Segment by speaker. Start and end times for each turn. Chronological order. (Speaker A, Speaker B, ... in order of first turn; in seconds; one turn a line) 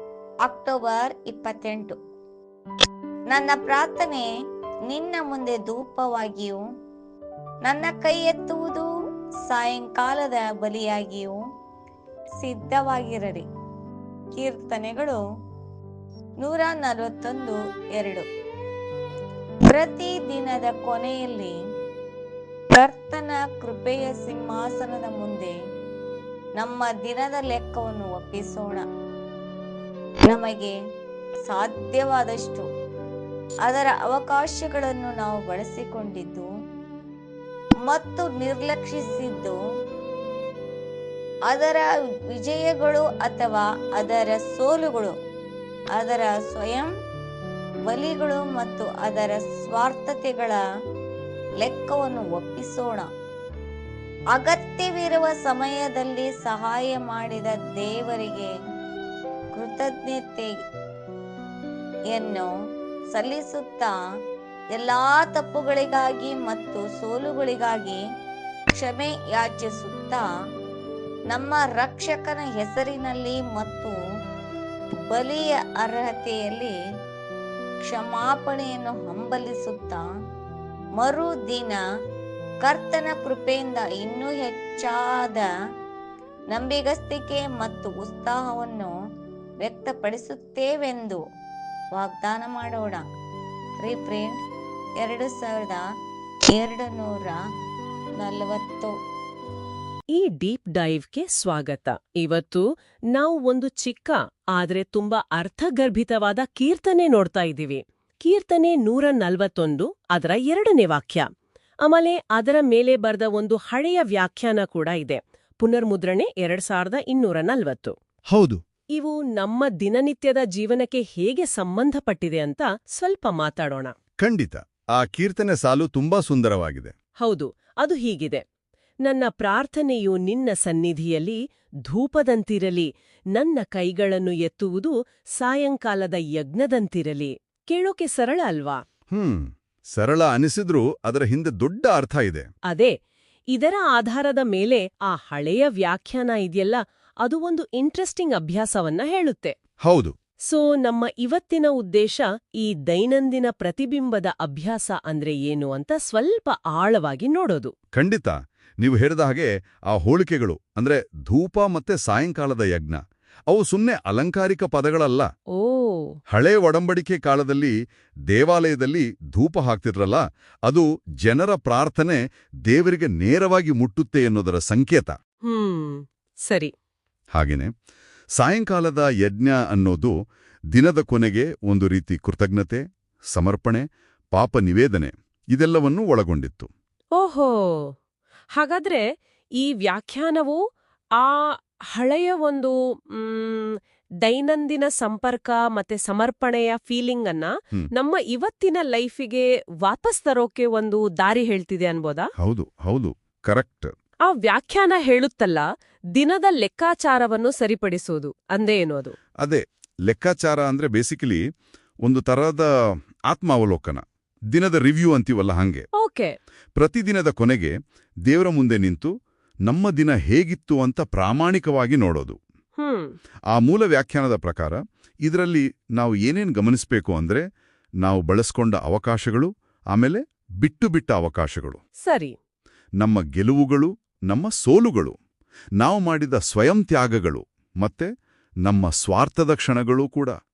Speaker A: 0.5-2.0
Speaker A: 3.3-4.3
Speaker A: 4.9-6.6
Speaker A: 7.6-8.9
Speaker A: 9.5-11.4
Speaker A: 12.4-13.5
Speaker A: 14.4-15.2
Speaker A: 16.4-18.3
Speaker A: 19.7-21.5
Speaker A: 22.8-25.5
Speaker A: 26.6-28.9
Speaker A: 30.3-30.8
Speaker A: 31.5-32.7
Speaker A: 33.7-36.5
Speaker A: 37.9-39.6
Speaker A: 41.5-45.1
Speaker A: 46.0-46.9
Speaker A: 47.9-50.6
Speaker A: 51.6-53.1
Speaker A: 54.3-58.5
Speaker A: 59.5-60.5
Speaker A: 62.1-62.5
Speaker A: 63.1-63.9
Speaker A: 64.8-68.0
Speaker A: 68.8-70.3
Speaker A: 71.3-74.0
Speaker A: 75.0-76.7
Speaker A: 77.8-80.0
Speaker A: 81.0-81.8
Speaker A: 82.6-85.5
Speaker A: 86.5-88.9
Speaker A: 89.6-91.2
Speaker A: 92.0-93.0
Speaker A: 93.8-94.3
Speaker A: 95.0-95.8
Speaker A: 96.5-97.4
Speaker A: 98.2-98.9
Speaker B: 100.2-111.3
Speaker B: 111.8-118.0
Speaker C: 118.3-118.6
Speaker B: 119.0-123.9
Speaker C: 124.2-126.9
Speaker B: 127.2-128.4
Speaker B: 129.1-138.8
Speaker C: 139.1-142.5
Speaker B: 142.7-142.9
Speaker B: 143.5-149.6
Speaker C: 149.8-150.1
Speaker B: 150.5-157.7
Speaker C: 158.0-165.3
Speaker B: 165.5-166.2
Speaker C: 166.3-167.7
Speaker C: 168.3-175.2
Speaker B: 175.4-176.7
Speaker C: 177.3-177.7
Speaker C: 178.4-180.2
Speaker C: 180.7-186.7
Speaker B: 187.1-187.9
Speaker B: 188.6-189.0
Speaker B: 189.6-190.6
Speaker B: 191.2-202.3
Speaker C: 202.4-203.9
Speaker B: 204.3-209.2
Speaker C: 209.4-211.4
Speaker C: 212.0-212.7
Speaker C: 213.3-215.9
Speaker B: 216.0-216.4
Speaker C: 216.8-217.8
Speaker C: 218.3-219.1
Speaker C: 219.7-222.4
Speaker B: 222.8-223.1
Speaker C: 223.5-227.5
Speaker C: 228.0-231.8
Speaker B: 232.0-232.3
Speaker C: 233.0-235.2
Speaker C: 235.8-238.1
Speaker C: 238.7-240.4